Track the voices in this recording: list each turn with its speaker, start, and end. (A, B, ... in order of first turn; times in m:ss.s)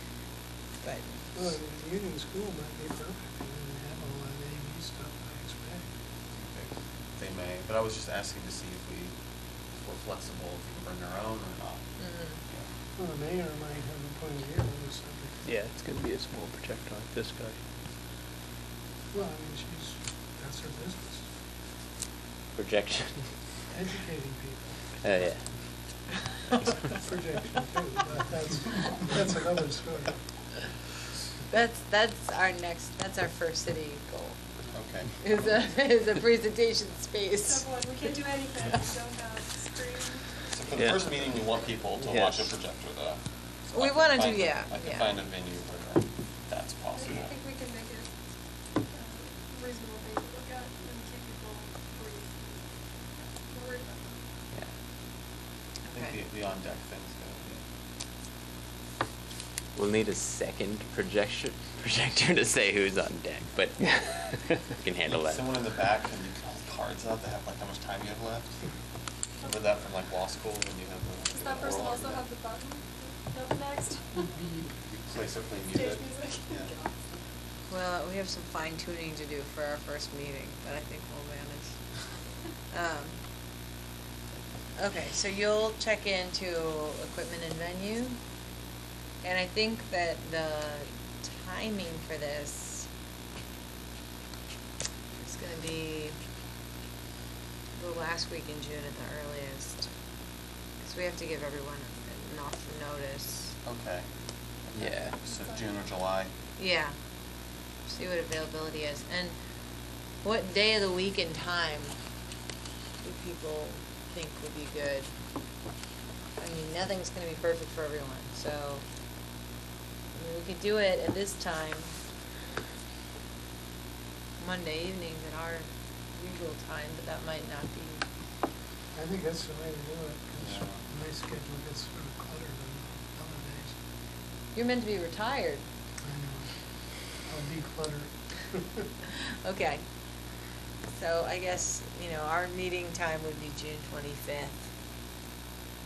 0:00.8-0:01.5 A
0:01.3-0:05.8 B
0:06.3-0:09.1 C
0:09.7-0:11.8 C
0:12.0-0:12.4 A
0:13.0-0:15.4 B
0:15.4-0:17.6 D
0:19.1-0:21.2 B
0:22.6-0:23.3 E
0:23.7-0:24.8 B
0:25.0-0:25.4 E
0:26.9-0:30.1 B
0:31.5-0:34.4 A
0:34.7-0:35.2 C
0:35.2-0:37.7 A
0:37.4-0:40.4 F
0:40.5-0:43.2 C
0:40.7-0:41.0 D
0:42.0-0:42.5 D
0:43.7-0:45.2 A
0:43.7-0:47.3 C
0:46.9-0:48.1 F
0:48.9-0:52.6 F
0:53.2-0:54.2 F
0:55.9-0:56.2 A
0:55.9-0:57.6 C
0:59.7-1:03.9 E
1:03.8-1:04.6 D
1:04.8-1:05.5 E
1:05.0-1:08.6 C
1:09.4-1:12.2 C
1:11.3-1:14.2 F
1:14.2-1:14.7 B
1:14.9-1:16.7 C
1:15.7-1:17.0 F
1:17.7-1:21.8 A
1:22.7-1:23.2 A
1:24.8-1:28.2 A
1:29.2-1:32.9 A
1:35.2-1:36.2 A
1:37.8-1:39.9 A
1:40.8-1:43.6 A
1:43.6-1:44.0 C
1:44.7-1:46.3 C
1:44.8-1:45.2 E
1:45.2-1:45.7 F
1:46.6-1:46.9 A
1:47.9-1:49.4 A
1:50.2-1:52.0 A
1:53.0-1:55.1 A
1:56.4-1:58.8 A
2:00.1-2:01.9 A
2:04.4-2:08.0 A
2:08.9-2:13.7 B
2:10.4-2:10.8 C
2:14.5-2:15.6 A
2:16.0-2:16.5 B
2:17.3-2:18.8 B
2:19.2-2:19.8 A
2:20.9-2:24.7 A